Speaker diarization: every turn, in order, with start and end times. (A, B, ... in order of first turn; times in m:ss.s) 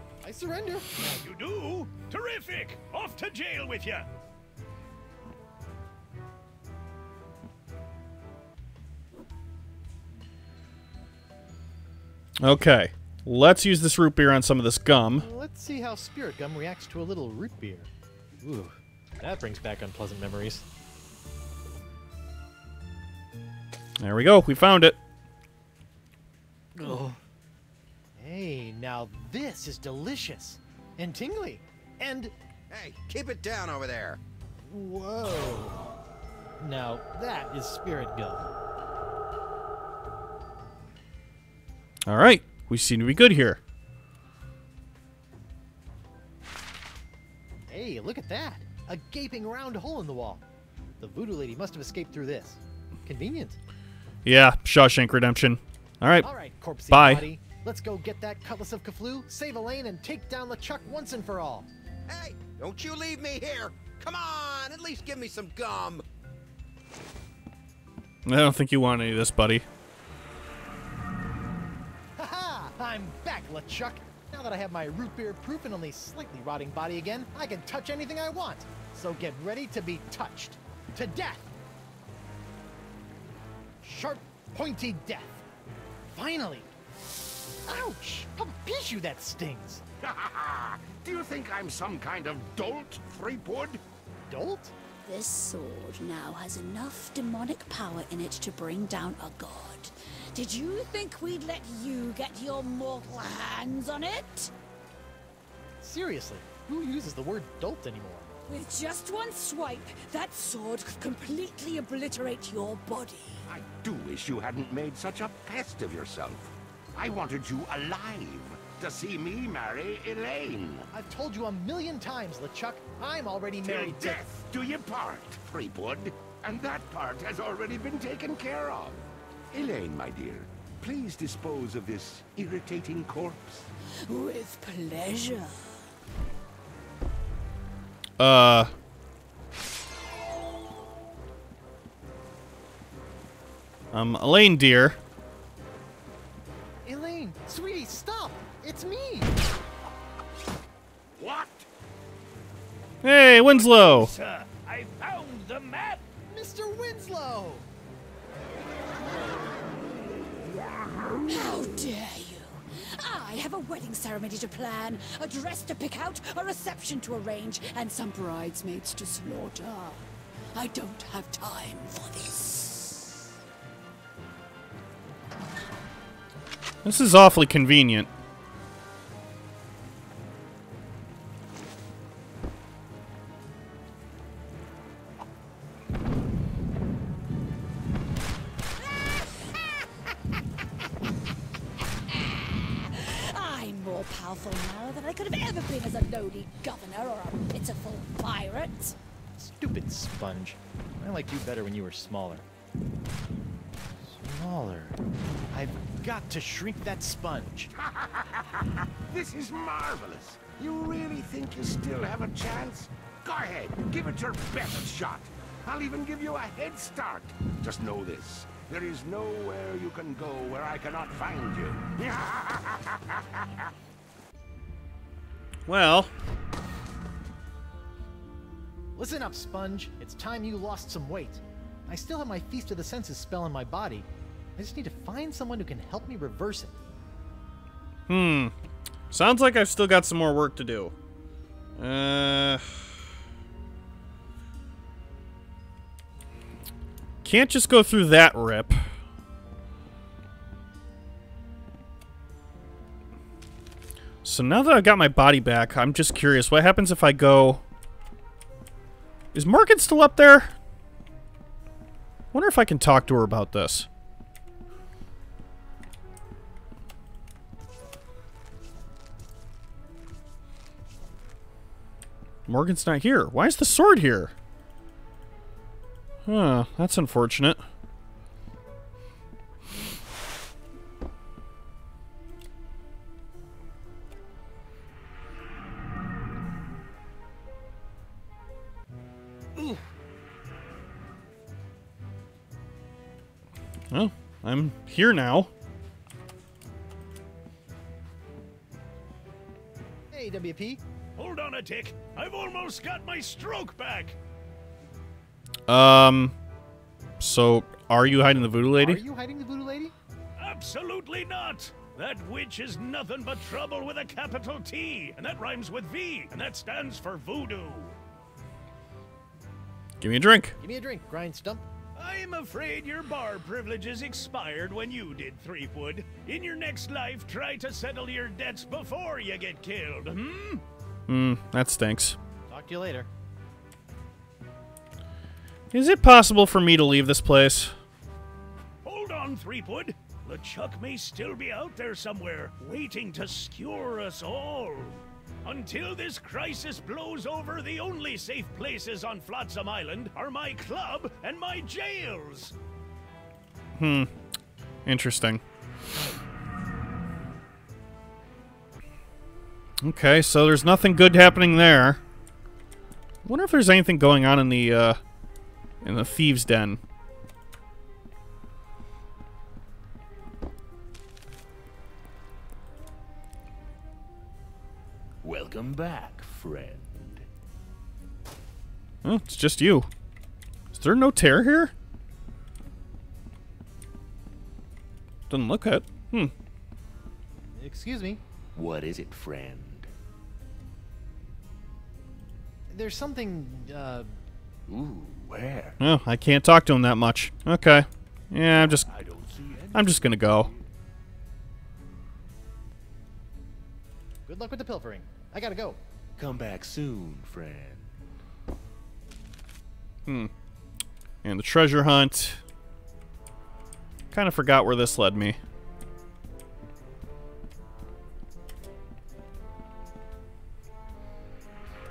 0:00.2-0:00.9 A
0:01.2-0:04.1 B
0:12.4-0:15.3 C
0:15.2-0:17.9 A
0:18.4-0:20.6 A
0:24.0-0:25.0 C
0:26.8-0:27.2 A
0:28.2-0:32.3 A
0:32.7-0:34.2 D
0:34.6-0:35.9 A
0:36.6-0:38.5 A
0:42.1-0:43.6 C
0:47.7-0:50.4 A
0:51.0-0:53.6 A
0:54.2-0:56.3 C
0:56.2-1:01.7 A
0:56.9-0:57.2 C
1:02.1-1:06.0 D
1:08.2-1:09.6 C
1:12.2-1:21.5 A
1:23.8-1:25.4 A
1:26.1-1:26.7 A
1:27.7-1:29.8 A
1:30.0-1:33.8 E
1:34.3-1:34.7 A
1:35.0-1:44.5 F
1:45.8-1:48.3 A
1:48.5-1:53.4 F
1:53.5-2:00.9 E
2:00.9-2:04.2 A
2:03.6-2:13.7 E
2:14.1-2:15.6 F
2:18.2-2:18.7 C
2:23.9-2:25.0 C
2:26.8-2:29.3 A
2:31.2-2:31.7 E
2:33.0-2:34.1 C
2:33.6-2:36.0 B
2:36.3-2:37.6 A
2:40.6-2:41.2 E
2:41.2-2:50.0 F
2:50.5-2:53.2 F
2:56.8-2:58.1 C
3:12.9-3:19.0 F
3:19.4-3:22.4 A
3:24.0-3:25.0 A
3:25.5-3:27.7 A
3:27.8-3:43.6 E
3:45.7-3:46.1 C
3:49.0-3:56.8 A
3:58.1-3:58.5 C
3:59.1-4:00.9 C
4:01.8-4:02.6 C
4:07.2-4:08.8 C
4:14.2-4:17.6 C
4:19.3-4:20.5 C
4:22.3-4:23.9 C
4:32.5-4:34.3 C
4:36.2-4:37.6 C
4:53.9-4:55.5 C
5:00.1-5:00.8 A
5:01.2-5:04.2 B
5:05.7-5:06.3 C
5:07.2-5:09.0 C
5:08.8-5:09.9 A
5:10.4-5:17.9 B
5:20.0-5:20.6 C
5:20.6-5:21.6 A
5:22.0-5:30.6 B
5:31.1-5:32.2 C
5:32.5-5:33.1 A
5:35.7-5:37.7 C
5:38.8-5:52.5 B
5:53.8-5:54.1 C
5:54.8-5:55.4 C
5:59.8-6:02.0 C
6:03.2-6:05.0 C
6:05.8-6:06.8 C
6:15.2-6:17.2 E
6:19.0-6:19.9 C
6:20.7-6:21.7 C
6:25.3-6:26.3 C
6:27.6-6:28.2 A
6:28.5-6:29.9 E
6:32.7-6:34.1 A
6:34.7-6:35.8 E
6:35.8-6:38.9 C
6:38.6-6:40.6 E
6:39.7-6:40.5 C
6:44.3-6:45.8 A
6:46.2-6:47.8 E
6:50.0-6:50.3 C
6:51.2-6:52.4 C
6:54.1-6:55.4 C